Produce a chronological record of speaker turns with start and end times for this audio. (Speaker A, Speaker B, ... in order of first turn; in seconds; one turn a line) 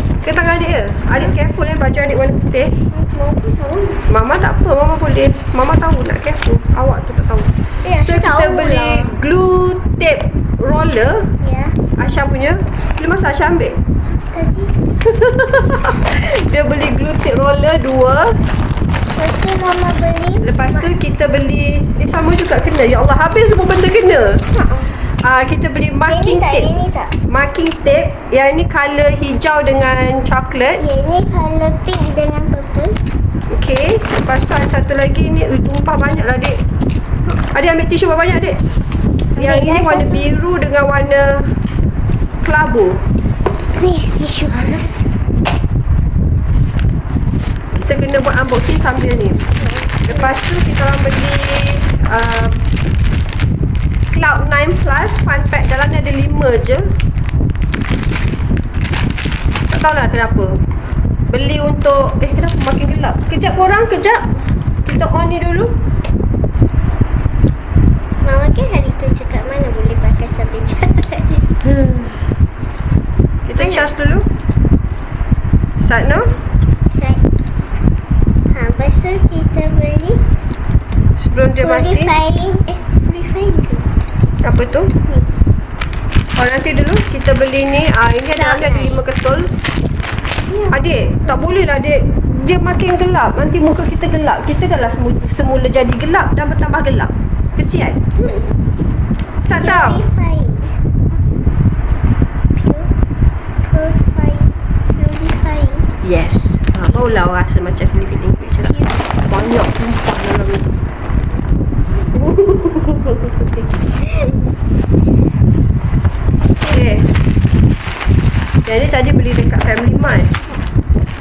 Speaker A: 0.1-2.8
Speaker B: 2.9-4.0
Speaker A: 4.1-11.3
Speaker B: 7.8-9.2
Speaker B: 11.4-11.8
Speaker A: 12.0-13.8
Speaker B: 14.1-14.8
Speaker A: 15.1-18.4
Speaker B: 19.1-20.9
Speaker A: 20.4-24.4
Speaker B: 24.5-25.0
Speaker A: 25.1-26.7
Speaker B: 26.1-27.1
Speaker A: 27.3-30.8
Speaker B: 30.8-33.0
Speaker A: 33.5-36.6
Speaker A: 37.4-38.6
Speaker B: 39.4-40.3
Speaker A: 39.4-41.6
Speaker A: 42.4-43.0
Speaker B: 43.7-44.9
Speaker A: 47.7-49.5
Speaker B: 49.5-50.4
Speaker A: 50.0-52.6
Speaker A: 54.1-57.0
Speaker A: 59.7-60.6
Speaker A: 61.3-65.7
Speaker B: 68.2-71.5
Speaker A: 71.6-72.2
Speaker A: 73.5-74.3
Speaker B: 73.5-73.9
Speaker A: 75.8-76.3
Speaker B: 76.9-77.2
Speaker B: 78.5-80.2
Speaker A: 81.2-82.1
Speaker B: 81.6-83.9
Speaker A: 84.4-84.9
Speaker B: 85.0-85.3
Speaker A: 86.4-89.5
Speaker B: 88.3-89.0
Speaker A: 90.7-98.2
Speaker B: 98.2-98.5
Speaker A: 99.4-100.0
Speaker B: 99.6-101.2
Speaker B: 102.5-102.9
Speaker B: 103.6-105.9
Speaker A: 106.0-110.7
Speaker B: 108.7-109.0
Speaker A: 112.1-113.5
Speaker A: 116.6-117.1
Speaker A: 118.6-120.4